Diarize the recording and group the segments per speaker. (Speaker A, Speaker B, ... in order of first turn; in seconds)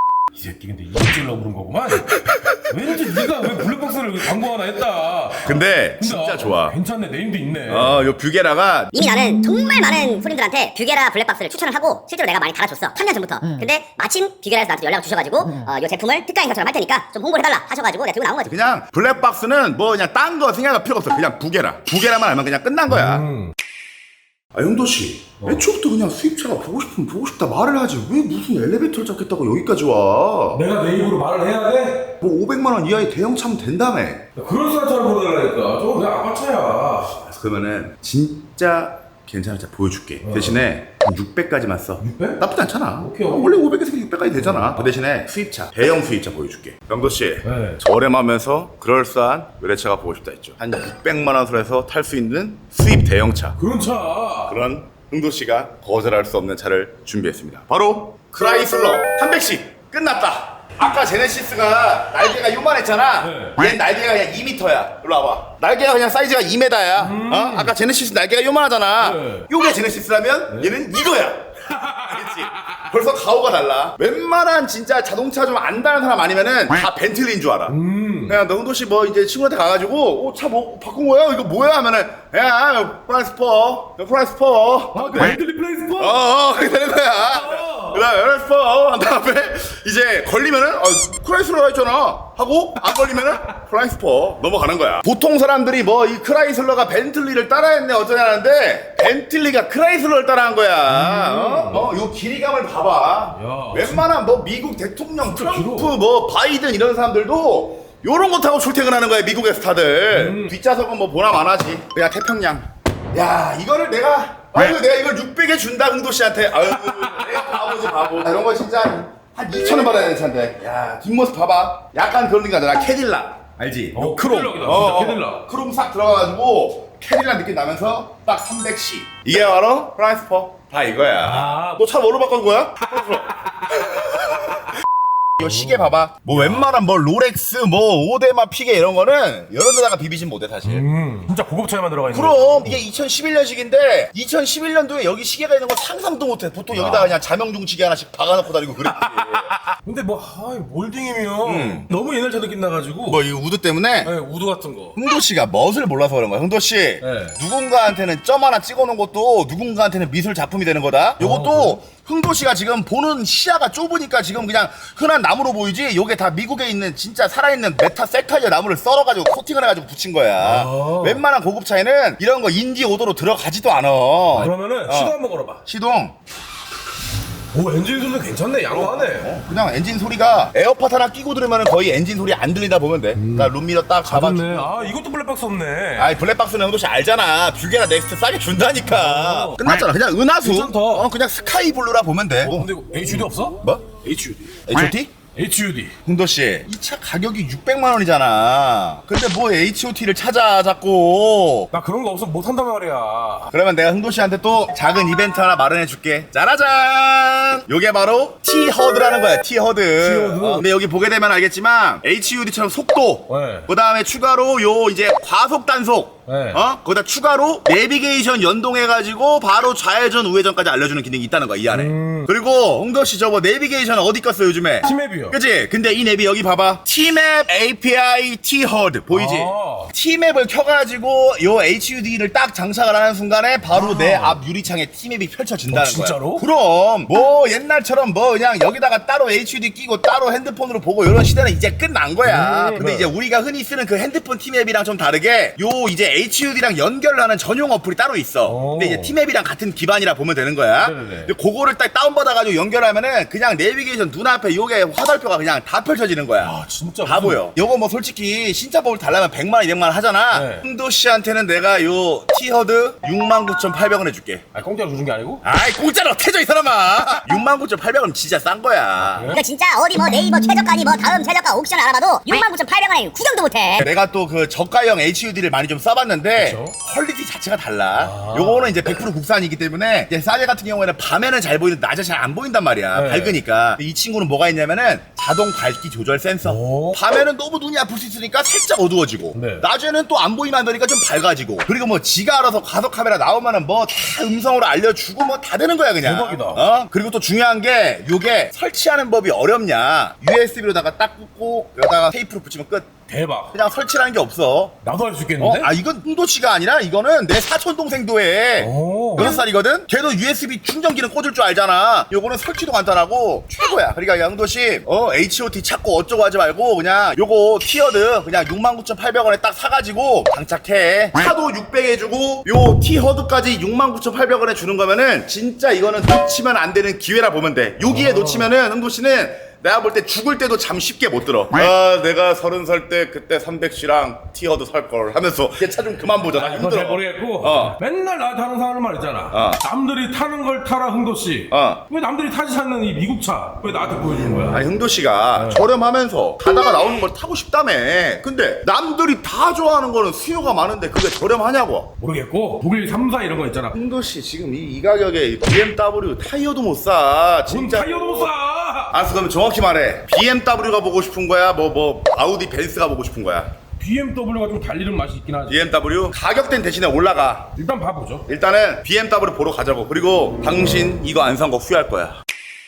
Speaker A: 0.3-8.1, 22.9-23.5, 25.4-25.7, 30.5-32.1, 34.4-37.2, 40.2-40.6, 42.0-42.4, 43.0-43.6, 44.3-44.9, 47.4-47.8, 53.6-54.6, 63.2-63.7, 67.0-67.8, 69.0-69.5, 70.5-70.8, 71.7-72.8, 77.7-78.4, 84.9-86.3, 87.2-88.1, 100.9-102.0, 103.3-104.1, 105.3-106.0, 110.1-110.6, 116.9-117.7, 123.9-125.4, 131.2-131.8, 133.1-134.1, 135.4-136.8, 140.6-142.8, 146.7-147.2, 149.0-153.2, 154.0-155.0, 157.0-157.4, 161.2-161.8, 170.4-171.2, 174.3-175.6, 177.5-179.4, 183.2-183.5, 184.1-186.2, 188.8-189.8, 190.4-191.1, 192.4-194.7, 195.3-195.9, 201.7-203.5, 210.0-210.7, 213.3-213.7, 216.3-216.6, 221.7-222.3, 224.8-225.4, 229.1-229.9, 233.7-234.4, 235.7-236.5, 242.2-243.1, 248.4-249.2, 250.8-251.3, 256.4-257.4, 260.3-260.6, 264.5-265.4, 269.0-269.4, 276.4-276.8, 278.0-278.8, 282.9-283.4, 286.4-287.0, 289.3-289.7, 296.0-296.6, 303.1-303.5, 304.8-305.7, 308.6-309.4, 327.9-328.6, 336.3-344.7, 345.4-345.7, 352.0-353.8, 357.5-359.0, 363.8-365.7, 367.6-368.3
Speaker B: 2.1-3.6, 5.4-6.8, 7.7-9.0, 18.4-23.2, 24.5-30.6, 32.2-34.2, 37.2-53.6, 54.5-77.8, 78.3-85.4, 86.0-134.7, 135.4-140.9, 142.1-149.6, 151.4-151.9, 153.1-154.1, 155.0-175.2, 175.7-176.1, 178.7-184.9, 186.0-193.8, 194.7-195.1, 196.1-201.7, 203.5-264.5, 265.4-269.4, 273.8-302.9, 303.5-304.8, 305.4-337.8, 339.3-339.6, 341.5-341.8, 344.5-351.9, 353.7-358.3, 358.9-363.5, 365.5-367.5, 368.3-372.2
Speaker C: 8.9-18.5, 269.3-273.9